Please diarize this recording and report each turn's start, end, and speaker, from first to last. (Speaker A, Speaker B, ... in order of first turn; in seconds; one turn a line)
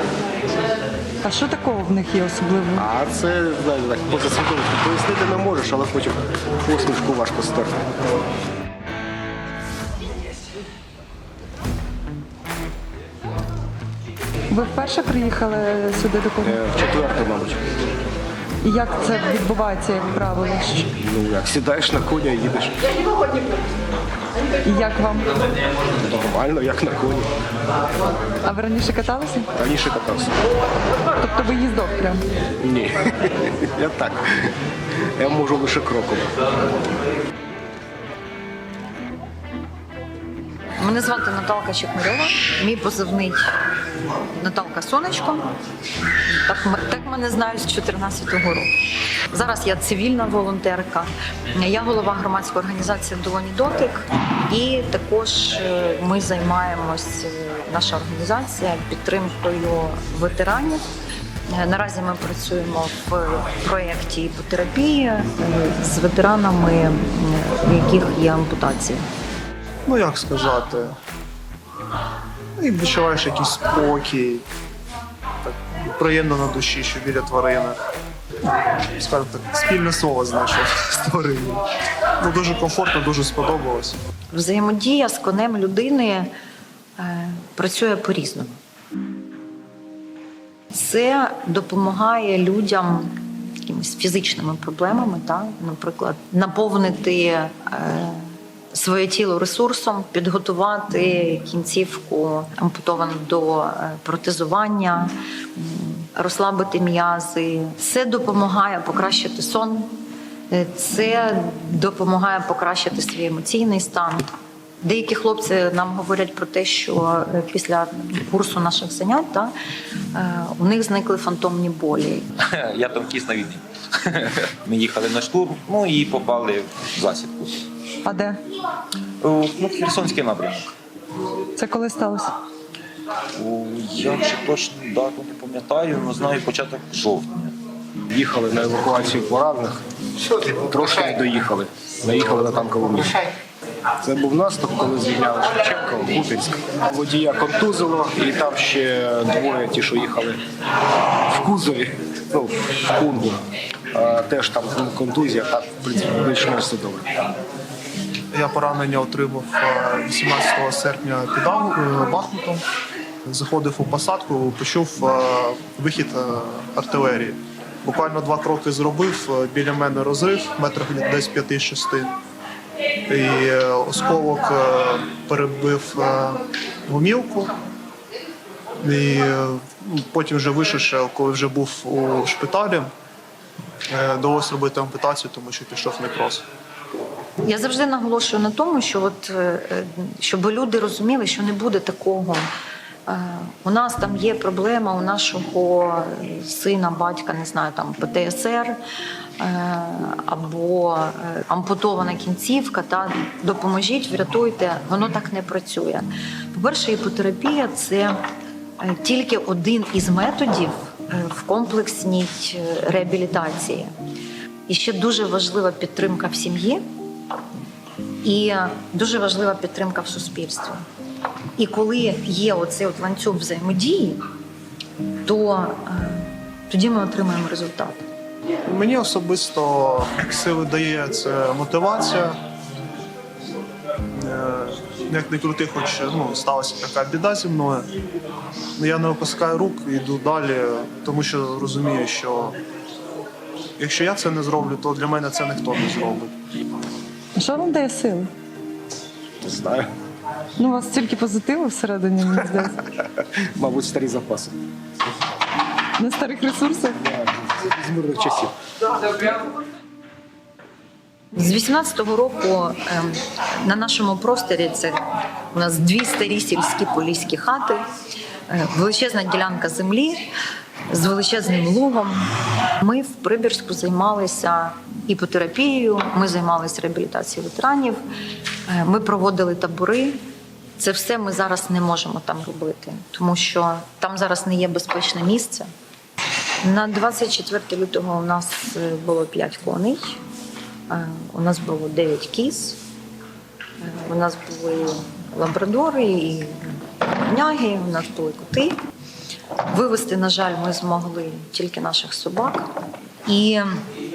Speaker A: 1.2-2.8
Speaker B: 2.8-7.8
Speaker A: 14.5-16.6
Speaker B: 16.4-17.6
Speaker A: 18.6-20.9
Speaker B: 21.0-22.9
Speaker A: 24.6-25.3
Speaker B: 25.9-27.3
Speaker A: 28.4-29.5
Speaker B: 29.6-30.3
Speaker A: 31.2-32.2
Speaker B: 32.6-34.5
Speaker B: 35.1-36.3
Speaker C: 40.8-43.5
Speaker C: 44.3-45.5
Speaker C: 46.3-48.7
Speaker C: 49.3-60.8
Speaker C: 61.5-69.0
Speaker D: 69.9-71.0
Speaker D: 72.6-74.4
Speaker D: 75.4-77.8
Speaker D: 79.0-81.6
Speaker D: 82.2-84.0
Speaker C: 84.3-86.3
Speaker C: 87.0-88.5
Speaker C: 90.7-109.9
Speaker C: 110.5-119.5
Speaker C: 120.1-122.2
Speaker E: 122.5-127.6
Speaker A: 128.0-128.4
Speaker E: 129.2-130.7
Speaker A: 131.6-132.3
Speaker E: 133.3-137.5
Speaker B: 138.1-143.3
Speaker B: 144.0-150.4
Speaker B: 151.2-153.4
Speaker B: 153.9-157.1
Speaker D: 158.3-162.6
Speaker D: 163.3-172.1
Speaker D: 173.1-177.6
Speaker D: 178.8-182.9
Speaker D: 183.9-186.4
Speaker C: 187.4-192.5
Speaker C: 193.1-198.8
Speaker C: 199.4-208.1
Speaker C: 208.8-213.9
Speaker C: 214.7-216.8
Speaker C: 218.2-220.8
Speaker C: 221.6-224.2
Speaker C: 225.2-228.0
Speaker D: 228.7-232.3
Speaker D: 234.2-237.9
Speaker D: 238.8-242.6
Speaker D: 243.8-246.3
Speaker A: 247.3-248.3
Speaker B: 249.4-249.9
Speaker A: 250.6-252.8
Speaker B: 253.0-254.5
Speaker A: 256.0-257.0
Speaker B: 257.0-258.5
Speaker C: 261.3-265.0
Speaker C: 265.5-267.8
Speaker C: 268.5-270.3
Speaker C: 270.9-272.2
Speaker C: 272.8-278.0
Speaker C: 278.7-280.2
Speaker C: 280.8-285.7
Speaker C: 286.6-290.2
Speaker C: 290.9-292.8
Speaker C: 293.8-298.8
Speaker C: 299.7-302.7
Speaker C: 303.2-303.8